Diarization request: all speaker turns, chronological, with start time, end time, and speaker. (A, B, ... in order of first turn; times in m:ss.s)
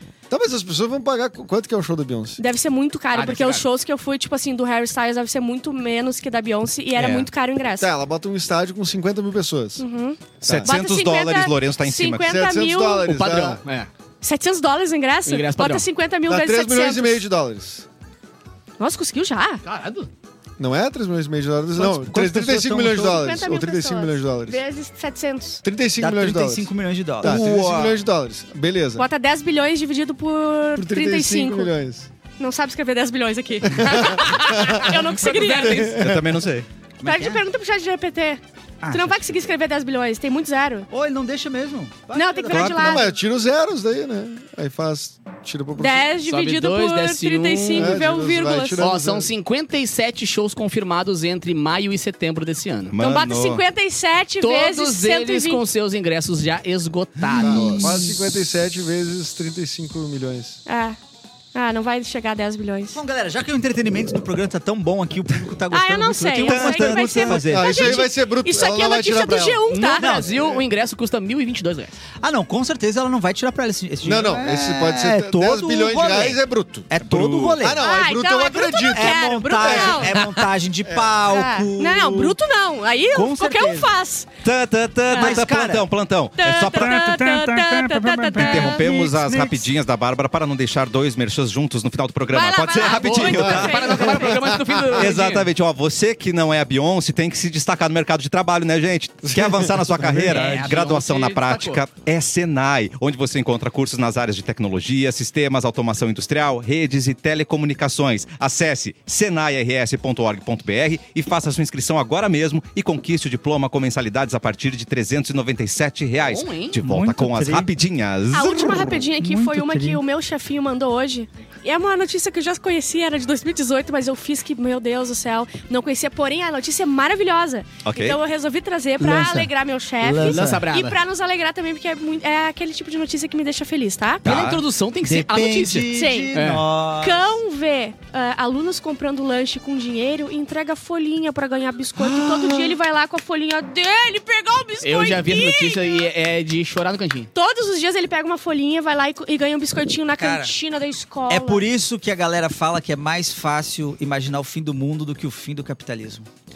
0:00.3-0:02.4 A
0:02.4-0:07.9 B
0:03.1-0:03.6 C
0:07.0-0:07.3 C
0:07.8-0:09.8 A
0:09.8-0:13.1 B
0:10.4-0:10.7 A
0:10.4-0:12.3 D
0:12.2-0:13.6 A
0:13.0-0:13.9 C
0:14.2-0:17.2 B
0:15.2-0:15.9 C
0:16.3-0:17.9 A
0:18.8-0:19.6 B
0:19.6-0:20.1 C
0:20.6-0:24.6 A
0:21.8-0:23.2 E
0:23.1-0:25.6 B
0:25.6-0:29.0 A
0:26.0-0:28.0 E
0:29.0-0:31.8 B
0:30.8-0:32.1 A
0:32.4-0:35.9 B
0:33.7-0:35.0 A
0:34.7-0:36.0 C
0:35.6-0:36.4 A
0:36.0-0:36.7 D
0:37.0-0:37.4 E
0:37.0-0:40.9 B
0:38.8-0:39.5 E
0:40.9-0:43.0 E
0:42.1-0:43.2 B
0:42.5-0:46.1 A
0:45.8-0:48.9 B
0:46.3-0:48.0 C
0:47.8-0:49.3 A
0:48.8-0:53.0 C
0:52.9-0:53.6 D
0:53.0-0:55.6 B
0:54.4-0:58.0 C
0:57.4-1:00.6 A
0:57.4-0:58.1 E
1:00.7-1:01.0 B
1:01.5-1:03.0 B
1:02.9-1:08.0 E
1:05.7-1:10.2 B
1:07.2-1:09.6 A
1:09.6-1:12.0 C
1:10.0-1:10.3 E
1:12.2-1:17.9 E
1:14.0-1:20.3 A
1:17.8-1:20.3 B
1:18.9-1:22.4 E
1:20.9-1:21.2 A
1:21.3-1:24.3 B
1:23.1-1:23.9 E
1:24.4-1:34.1 D
1:25.1-1:25.5 B
1:25.1-1:25.9 E
1:26.4-1:29.1 B
1:28.4-1:29.6 E
1:32.3-1:34.5 B
1:32.8-1:35.5 C
1:33.4-1:33.7 A
1:34.6-1:35.0 A
1:34.9-1:59.0 D
1:39.2-1:40.5 A
1:40.0-1:41.8 C
1:56.2-1:56.8 C
1:56.8-1:57.7 E
1:58.3-2:14.3 B
1:58.6-2:00.0 E
2:07.8-2:08.2 D
2:09.0-2:10.6 E
2:10.2-2:11.0 C
2:14.2-2:14.6 D
2:14.2-2:16.6 C
2:15.0-2:17.4 E
2:15.9-2:16.4 B
2:17.0-2:26.1 B
2:22.0-2:22.7 E
2:24.8-2:27.3 C
2:27.3-2:31.6 B
2:30.2-2:30.5 E
2:31.3-2:36.3 E